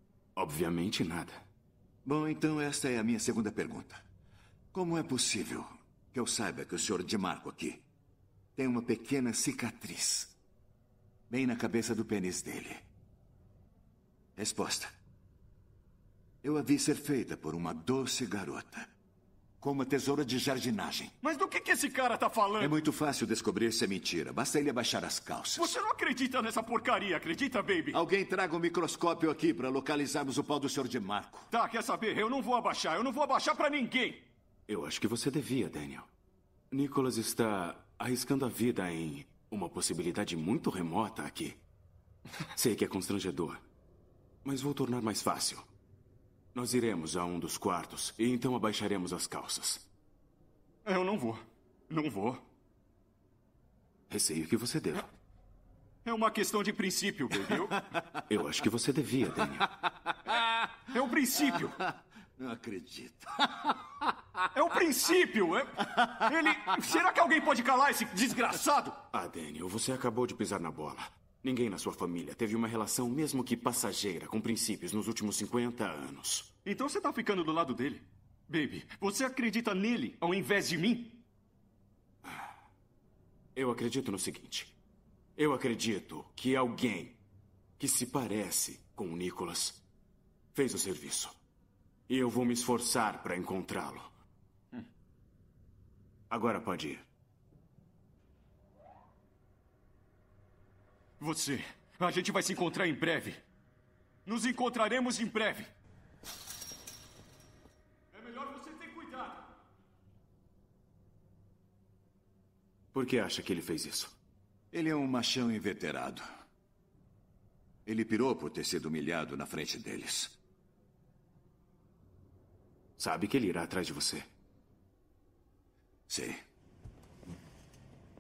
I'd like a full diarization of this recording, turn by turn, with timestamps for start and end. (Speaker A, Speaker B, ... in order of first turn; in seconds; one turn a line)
Speaker A: 0.4-1.5
Speaker B: 2.0-4.0
Speaker B: 4.7-7.9
Speaker B: 8.6-10.4
Speaker B: 11.3-12.9
Speaker B: 14.4-14.9
Speaker B: 16.4-18.9
Speaker B: 19.6-21.1
Speaker C: 21.2-22.7
Speaker B: 22.6-25.8
Speaker C: 25.6-28.0
Speaker B: 27.9-31.5
Speaker C: 31.5-34.3
Speaker A: 34.7-36.1
Speaker A: 36.7-41.6
Speaker A: 42.5-43.6
Speaker A: 44.5-45.7
Speaker A: 46.5-49.9
Speaker C: 50.9-52.5
Speaker A: 54.1-55.1
Speaker C: 56.0-57.8
Speaker A: 58.3-59.7
Speaker C: 60.9-61.8
Speaker B: 62.4-63.5
Speaker C: 64.5-69.0
Speaker A: 69.1-76.5
Speaker C: 76.7-81.2
Speaker A: 83.5-84.8
Speaker A: 85.4-87.2
Speaker A: 87.8-89.8
Speaker A: 90.5-91.4
Speaker A: 92.1-94.1
Speaker A: 96.3-97.1
Speaker C: 101.2-103.4
Speaker C: 104.3-105.7
Speaker C: 108.1-109.5
Speaker A: 112.9-114.2
Speaker B: 114.7-116.2
Speaker B: 117.9-120.4
Speaker A: 123.0-124.3
Speaker B: 126.1-126.4